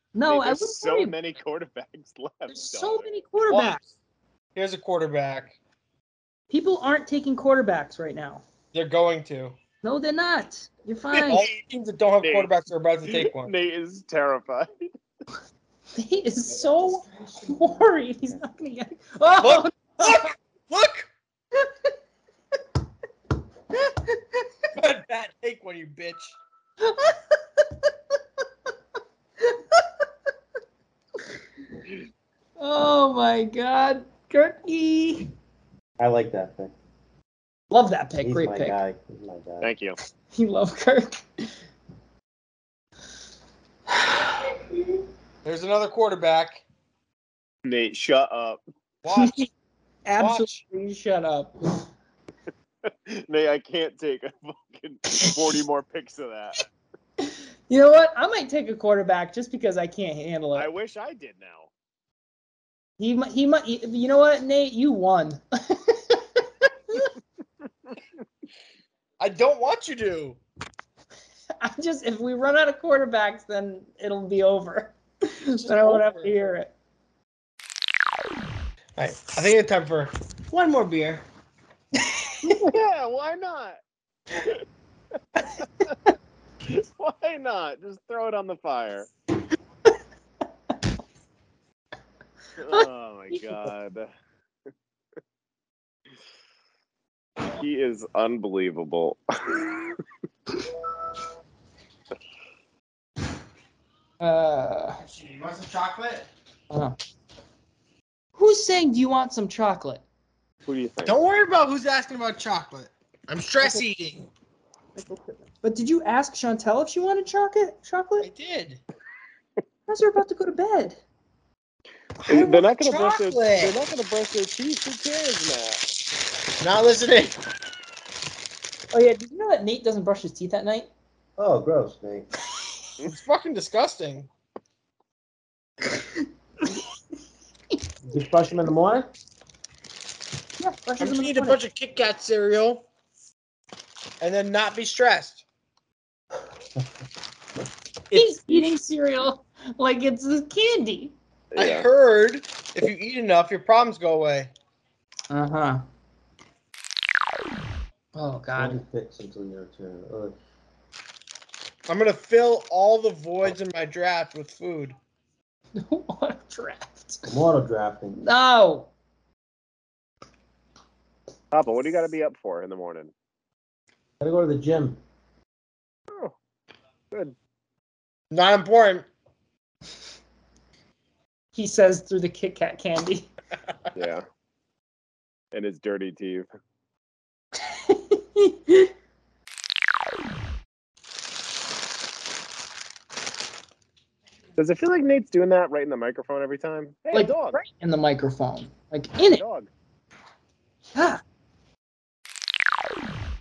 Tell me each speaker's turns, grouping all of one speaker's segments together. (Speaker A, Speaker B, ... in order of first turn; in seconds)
Speaker A: 0.1-1.1, 2.5-3.8, 6.5-8.4, 9.8-11.4, 15.9-20.3, 23.7-24.4, 26.8-27.9, 29.4-29.9, 32.6-35.3, 37.7-38.8, 40.3-41.2, 49.1-49.5, 50.0-51.5, 55.1-55.4, 57.2-60.7, 63.0-66.2, 71.6-76.7, 92.7-93.7, 104.2-105.0, 106.7-107.0, 108.4-110.0, 115.0-118.3, 119.9-121.0, 128.9-130.9, 140.6-141.6, 148.1-151.1, 155.3-155.8, 158.1-158.8, 165.8-167.3, 168.2-168.9, 181.6-183.3, 187.6-188.9, 197.1-199.4, 200.9-201.2
Speaker B: 0.3-3.1, 11.1-11.6, 12.2-12.6, 13.1-14.9, 39.6-40.0, 47.6-48.6, 52.9-56.6, 60.5-61.7, 82.6-83.8, 86.7-89.1, 92.6-94.1, 97.5-100.0, 110.7-111.2, 122.3-125.8, 151.5-151.9, 171.5-173.1, 183.9-184.2, 185.5-186.5, 194.6-197.6, 199.3-199.7
Speaker C: 3.5-3.9, 4.5-5.6, 8.7-9.6, 11.3-13.5, 19.4-21.1, 24.8-26.4, 45.4-46.6, 49.0-49.5, 50.2-50.5, 69.2-70.4, 75.6-76.3, 79.0-81.2, 105.0-106.3, 111.0-114.3, 118.2-118.8, 122.2-123.7, 126.6-127.4, 133.0-134.3, 141.0-142.8, 144.2-145.4, 148.1-148.6, 151.6-154.5, 161.9-165.0, 178.3-179.1
Speaker D: 36.0-36.7, 38.2-39.7, 131.4-132.3, 138.0-139.1, 158.6-160.3, 167.3-168.2, 174.2-175.0